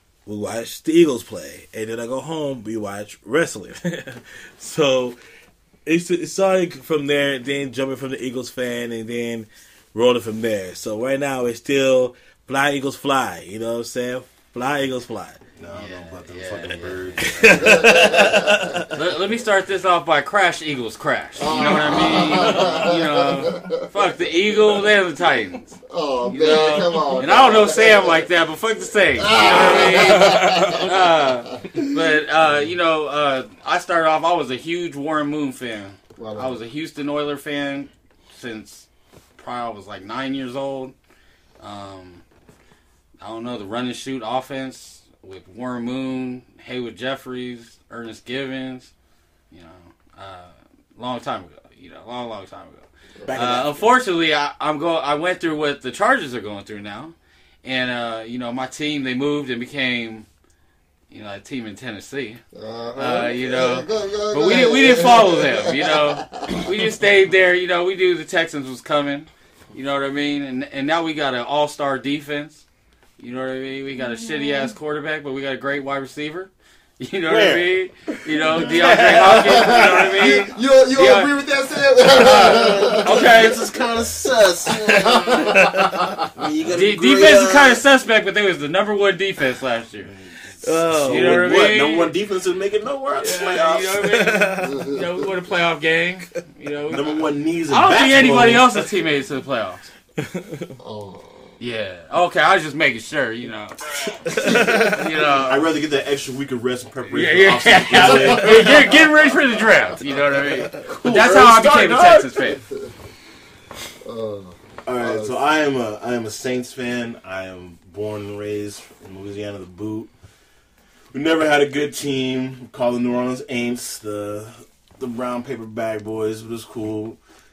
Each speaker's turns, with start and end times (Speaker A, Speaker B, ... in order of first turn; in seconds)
Speaker A: 0.2-5.2, 5.8-15.4, 17.3-19.0, 21.9-22.8, 26.4-27.1, 30.1-30.8, 53.2-53.8, 77.3-77.7, 78.5-80.4, 85.6-86.0, 90.6-91.5, 93.9-95.0, 100.2-100.7, 104.2-104.9
Speaker B: 15.6-17.5, 82.3-87.8, 90.0-94.0, 96.9-98.7, 105.4-108.9, 110.7-112.6, 114.8-120.1, 121.1-127.2
Speaker C: 15.7-17.9, 18.9-40.9, 41.6-42.2, 43.2-48.9, 49.5-60.3, 61.1-62.4, 63.0-72.6, 73.2-81.3, 82.0-83.7, 86.7-90.1, 90.9-92.1, 93.2-99.9, 101.6-105.7, 107.1-112.6
Speaker D: 17.5-18.9, 21.4-24.3, 25.9-28.3, 29.1-32.1, 36.2-36.6, 53.2-53.6, 62.5-66.7, 74.0-74.7, 79.2-83.4, 84.6-86.2, 94.6-95.0, 100.8-101.5, 104.4-105.0, 114.0-115.4